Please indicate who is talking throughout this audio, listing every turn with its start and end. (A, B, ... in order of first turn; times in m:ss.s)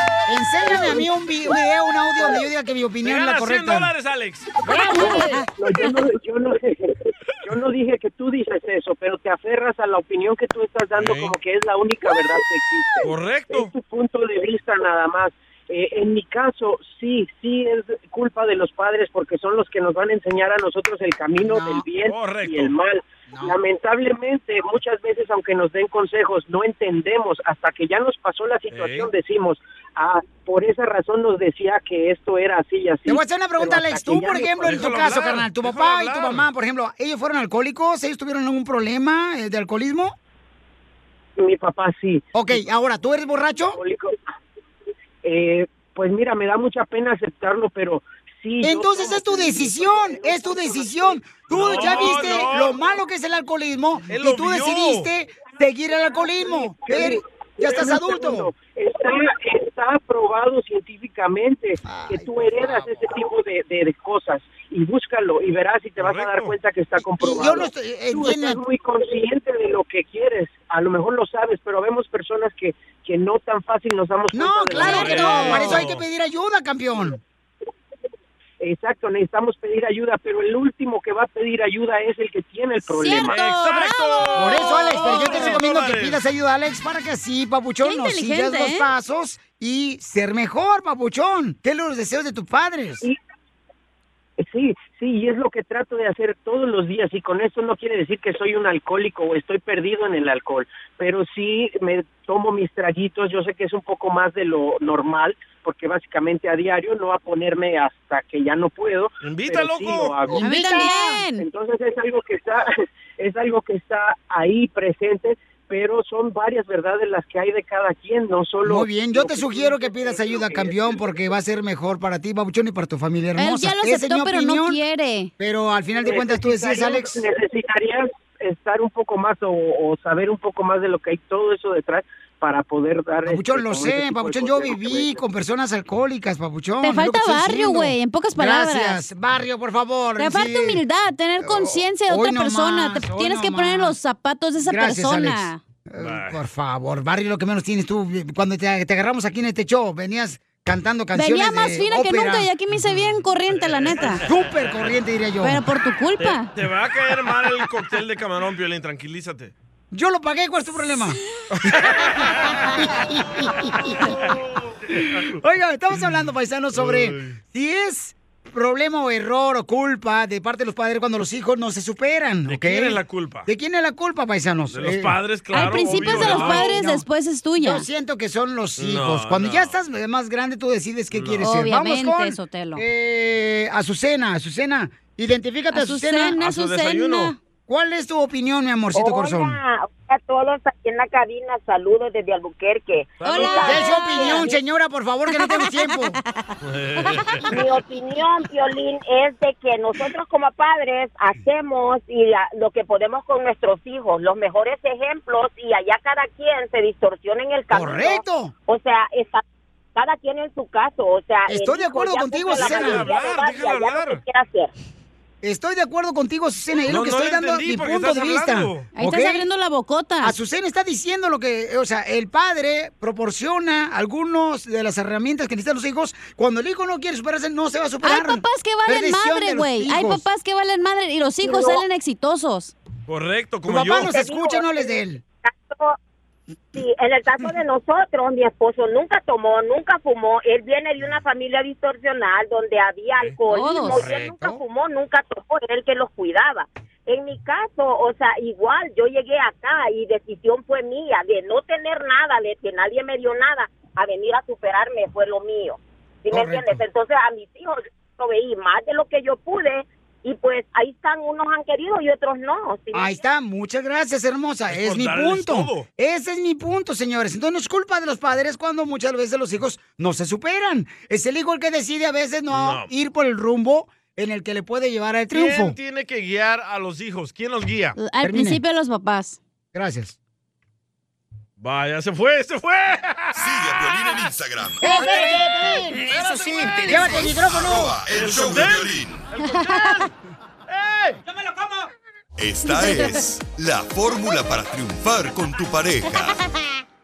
0:00.3-0:03.9 A
0:00.7-0:01.0 B
0:03.0-0:04.8 C
0:04.6-0:05.4 A
0:04.7-0:05.4 D
0:04.8-0:34.8 B
0:10.9-0:11.4 C
0:13.0-0:13.7 C
0:21.4-0:21.8 A
0:22.0-0:22.7 C
0:23.3-0:23.6 A
0:28.7-0:29.1 C
0:33.0-0:40.1 A
0:34.6-0:36.5 C
0:41.4-0:42.2 B
0:42.3-0:43.8 A
0:43.8-0:44.2 B
0:45.2-0:52.4 B
0:48.6-0:58.5 A
0:51.5-0:52.8 C
0:54.1-0:55.1 C
0:56.4-1:15.7 B
1:01.8-1:03.1 A
1:06.0-1:06.6 C
1:07.2-1:08.6 A
1:14.3-1:17.2 A
1:14.7-1:15.8 D
1:14.8-1:16.0 C
1:18.6-1:23.4 B
1:22.8-1:25.5 D
1:23.2-1:26.2 C
1:24.3-1:33.1 A
1:27.8-1:28.9 D
1:34.4-2:01.1 B
1:49.2-1:50.2 C
1:50.3-1:51.2 A
1:50.4-1:51.4 D
1:58.6-2:04.8 A
2:03.4-2:05.3 D
2:05.4-2:07.2 A
2:06.0-2:15.2 B
2:13.2-2:20.8 A
2:16.8-2:19.0 D
2:20.2-2:25.6 D
2:21.4-2:24.0 A
2:24.6-2:32.5 A
2:26.0-2:26.4 C
2:31.1-2:34.2 D
2:33.5-2:34.4 C
2:34.2-2:35.6 A
2:35.4-2:36.5 D
2:36.2-2:39.5 C
2:39.9-2:44.0 A
2:41.5-2:42.8 C
2:43.7-2:44.0 C
2:44.9-2:55.2 A
2:46.7-2:47.4 C
2:52.4-2:53.5 C
2:54.7-2:56.8 C
2:55.5-2:57.9 D
2:55.8-2:57.0 A
2:57.6-3:06.4 A
2:58.8-2:59.8 C
3:01.1-3:01.4 C
3:01.4-3:02.8 D
3:05.7-3:07.4 D
3:06.4-3:07.3 C
3:07.7-3:09.6 A
3:08.9-3:14.6 E
3:13.2-3:13.7 C
3:13.2-3:14.5 D
3:13.4-3:16.2 A
3:15.4-3:15.9 D
3:16.6-3:17.5 C
3:17.5-3:29.4 E
3:27.7-3:28.5 A
3:30.0-3:34.7 E
3:31.5-3:33.1 A
3:32.5-3:34.2 C
3:35.4-3:39.4 A
3:36.9-3:38.9 C
3:38.9-3:40.4 D
3:40.2-3:50.2 A
3:48.0-3:52.7 D
3:51.4-3:51.8 E
3:53.1-3:54.2 C
3:53.7-3:55.2 A
3:54.0-3:56.0 E
3:56.7-4:23.2 E
4:03.5-4:04.0 D
4:03.8-4:04.6 A
4:16.3-4:16.8 A
4:22.9-4:35.8 A
4:24.7-4:25.9 C
4:32.5-4:32.9 C
4:35.3-4:38.0 C
4:38.0-4:39.4 D
4:38.2-4:38.6 A
4:39.7-4:40.2 A
4:41.6-4:43.4 C
4:43.3-4:45.0 F
4:44.8-4:48.0 A
4:47.2-4:49.2 F
4:48.1-4:50.1 C
4:49.6-4:50.0 D
4:50.7-4:51.2 C
4:52.4-4:56.4 F
4:52.7-4:53.1 D